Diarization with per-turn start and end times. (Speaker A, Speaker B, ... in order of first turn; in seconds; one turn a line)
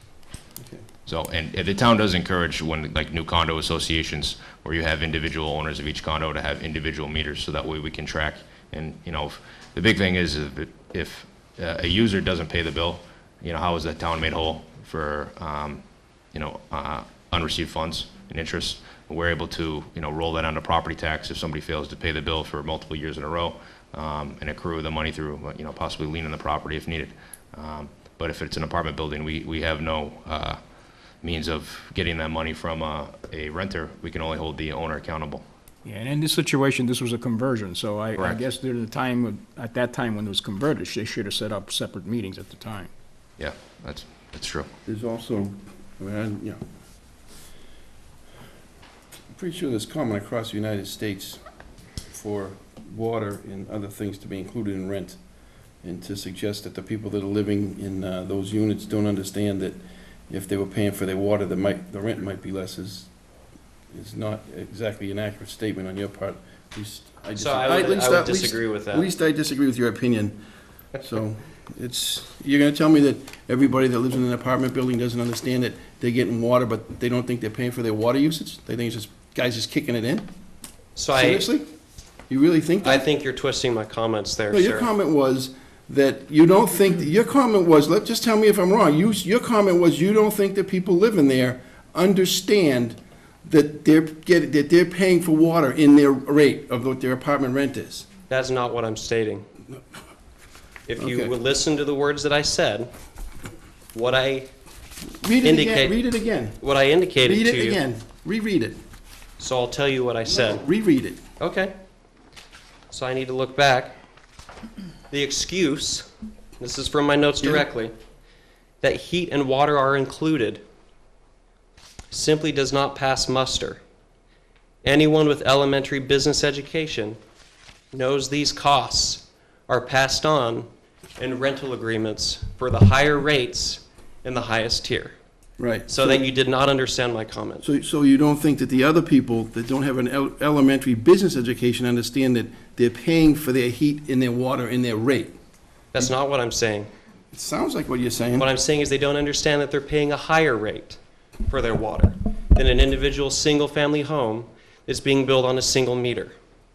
Speaker A: 1.1-30.6
Speaker A: 31.2-35.4
Speaker B: 35.8-42.9
Speaker A: 38.1-38.4
Speaker A: 43.4-44.7
Speaker C: 44.9-46.6
Speaker C: 49.3-51.4
Speaker C: 52.1-55.2
Speaker C: 55.8-63.1
Speaker C: 63.9-70.4
Speaker D: 67.3-69.1
Speaker C: 71.0-80.3
Speaker D: 81.0-81.5
Speaker C: 81.1-81.7
Speaker C: 82.3-83.0
Speaker D: 82.8-84.9
Speaker C: 84.5-98.1
Speaker D: 98.3-99.5
Speaker D: 100.9-102.9
Speaker C: 101.0-101.3
Speaker D: 103.9-104.5
Speaker C: 105.2-106.6
Speaker D: 105.4-106.0
Speaker D: 106.6-107.8
Speaker C: 107.2-108.8
Speaker D: 109.4-110.6
Speaker C: 110.3-111.2
Speaker D: 111.4-111.7
Speaker D: 112.9-114.0
Speaker D: 115.1-116.1
Speaker D: 116.6-117.9
Speaker D: 118.8-120.6
Speaker D: 122.1-123.8
Speaker D: 124.8-127.2
Speaker D: 127.9-130.7
Speaker D: 131.2-135.2
Speaker C: 135.6-136.2
Speaker D: 135.9-137.6
Speaker C: 137.6-145.3
Speaker D: 145.9-146.9
Speaker C: 147.3-148.5
Speaker D: 148.3-156.3